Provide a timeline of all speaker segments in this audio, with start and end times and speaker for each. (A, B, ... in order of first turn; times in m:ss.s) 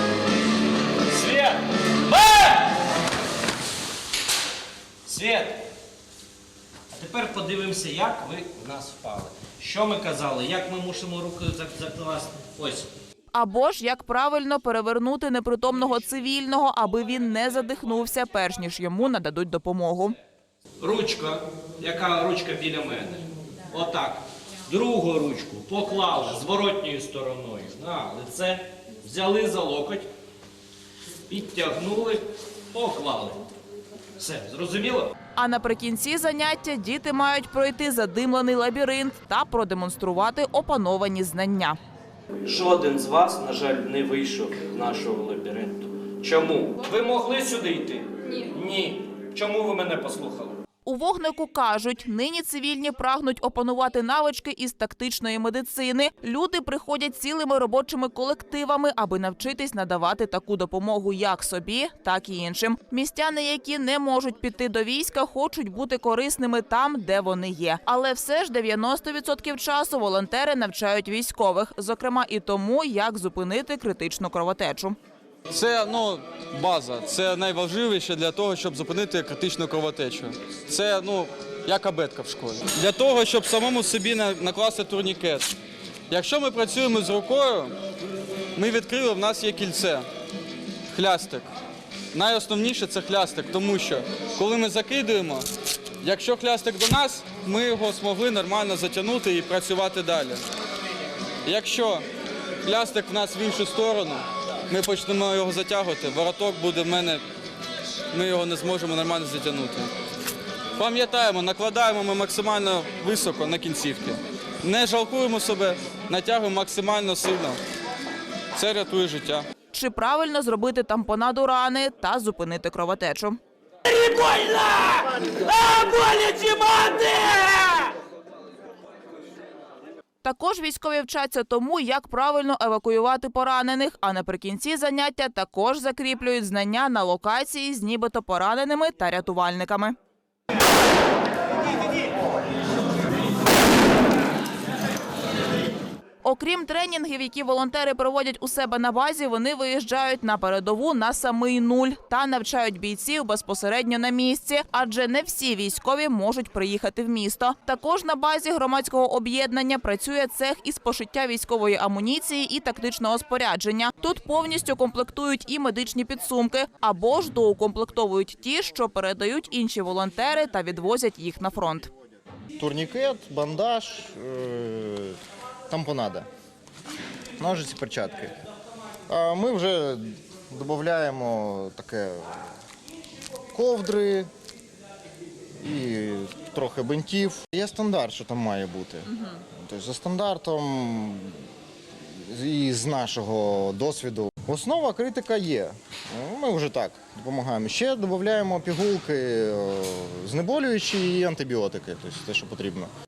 0:01.1-0:02.6 A
0:05.0-0:05.6 A
0:06.9-0:12.9 A
0:13.3-0:20.1 B
0:20.8-0:30.1 A
0:31.3-0:32.2 A
0:32.7-0:33.4 A
0:34.2-0:35.1 A
0:35.4-0:41.8 B
0:42.4-0:50.6 A
0:50.8-1:15.0 B
1:15.5-1:25.5 C
1:26.1-1:27.7 C
1:28.6-1:30.0 C
1:30.9-1:31.5 C
1:32.1-1:35.4 C
1:36.0-1:40.4 C
1:41.4-1:42.0 C
1:42.6-1:47.2 C
1:48.1-1:49.9 C
1:50.8-1:57.5 C
1:58.6-1:59.4 C
1:59.7-2:03.4 B
2:10.2-2:19.9 B
2:26.2-2:51.9 B
2:52.6-2:55.1 D
2:55.7-2:56.3 D
2:57.4-2:58.3 D
2:59.1-3:02.2 D
3:03.5-3:04.3 D
3:05.6-3:09.1 D
3:09.6-3:11.3 D
3:12.3-3:22.9 D